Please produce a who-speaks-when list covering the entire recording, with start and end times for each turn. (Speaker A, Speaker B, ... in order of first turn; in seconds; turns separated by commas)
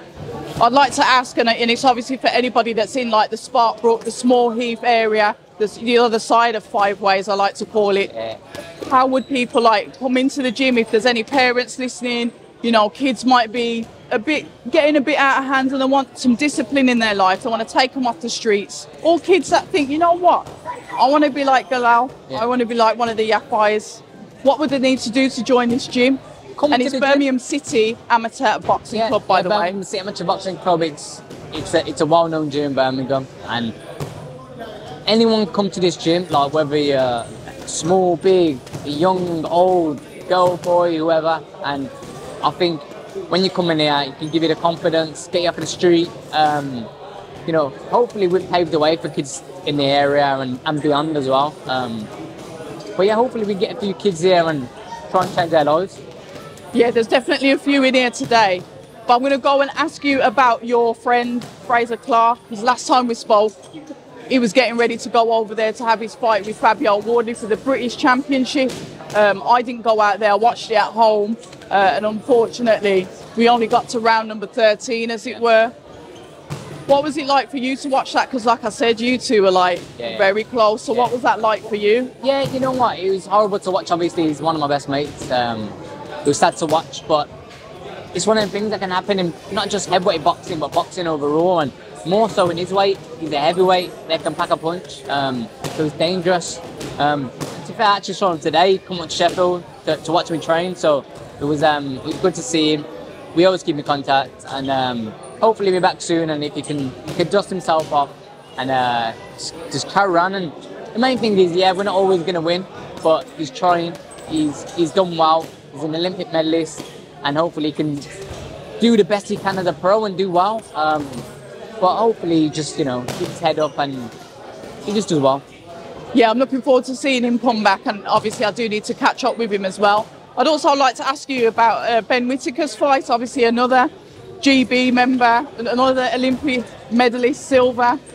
Speaker A: 0.6-8.1, Speaker B: 8.1-8.4, Speaker A: 8.8-20.5, Speaker A: 21.0-26.2, Speaker B: 26.6-27.2, Speaker A: 26.7-29.7, Speaker B: 28.9-33.8, Speaker B: 35.1-41.9, Speaker B: 42.4-46.9, Speaker B: 47.5-52.1, Speaker B: 53.0-56.0, Speaker A: 56.7-63.6, Speaker A: 64.3-75.7, Speaker A: 76.9-82.1, Speaker B: 80.0-80.3, Speaker B: 82.2-87.3, Speaker B: 88.1-118.1, Speaker B: 118.8-121.3, Speaker B: 121.8-124.1, Speaker B: 124.8-125.4, Speaker A: 126.1-133.9, Speaker A: 134.4-138.0